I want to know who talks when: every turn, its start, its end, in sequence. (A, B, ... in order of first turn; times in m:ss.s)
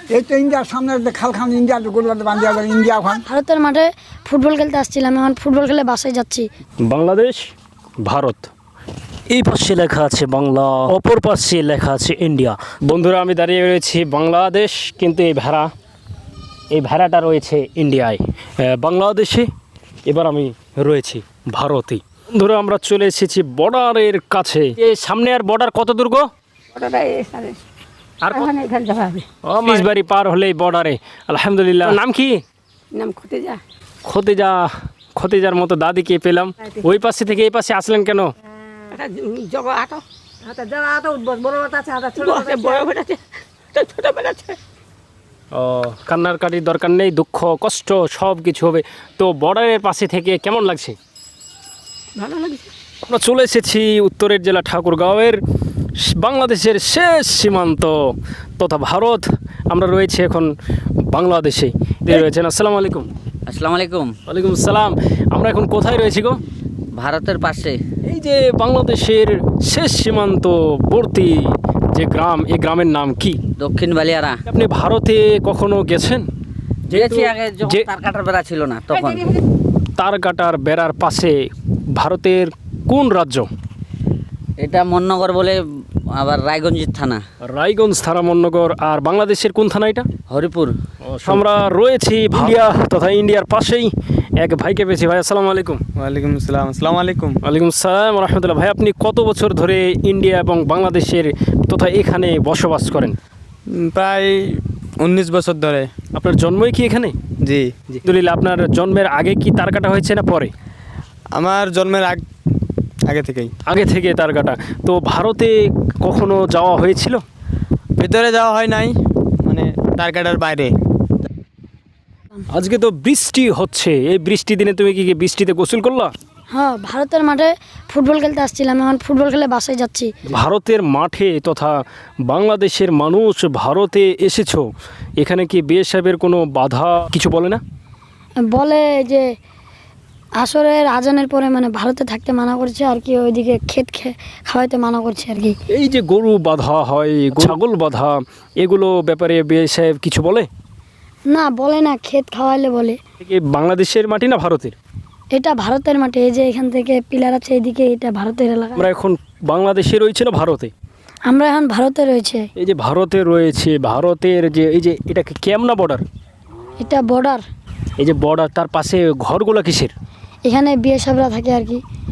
0:00.1-0:03.2 A
0:03.3-0:06.5 B
0:06.9-0:07.4 C
0:08.0-0:08.5 C
0:09.3-0:15.7 C
0:16.7-0:19.5 C
0:20.1-0:26.3 C
0:26.8-0:27.6 D
0:28.3-0:29.8 D
0:29.4-0:32.4 C
0:32.9-0:33.6 D
0:34.0-0:38.3 C
0:38.9-0:43.2 D
0:43.7-0:44.6 D
0:45.5-0:51.0 C
0:52.2-0:52.6 D
0:53.0-0:55.4 C
0:56.0-1:00.5 C
1:01.1-1:03.1 C
1:03.5-1:04.1 E
1:04.3-1:06.4 C
1:06.9-1:07.8 E
1:08.0-1:13.4 C
1:13.6-1:14.4 E
1:14.5-1:16.3 C
1:16.9-1:17.9 C
1:16.9-1:19.4 E
1:20.0-1:23.5 C
1:24.6-1:25.6 E
1:26.1-1:27.2 E
1:27.4-1:30.1 C
1:30.3-1:30.8 E
1:31.0-1:35.8 C
1:36.0-1:37.4 F
1:37.4-1:43.2 C
1:43.7-1:45.9 F
1:46.2-1:47.1 C
1:47.4-1:47.7 F
1:47.9-1:50.5 C
1:51.4-1:52.2 F
1:53.1-1:53.5 F
1:53.7-1:57.2 C
1:58.0-1:58.9 F
1:59.5-2:00.7 F
2:02.5-2:06.1 C
2:06.5-2:10.1 B
2:10.3-2:11.8 C
2:12.3-2:14.7 C
2:15.2-2:17.6 C
2:18.4-2:19.3 B
2:20.4-2:25.6 B
2:25.7-2:30.5 C
2:31.3-2:33.0 B
2:33.2-2:34.8 C
2:35.3-2:38.9 B
2:38.8-2:40.7 C
2:41.3-2:42.5 B
2:42.6-2:46.0 C
2:46.8-2:47.4 B
2:48.0-2:49.9 C
2:50.4-2:51.8 B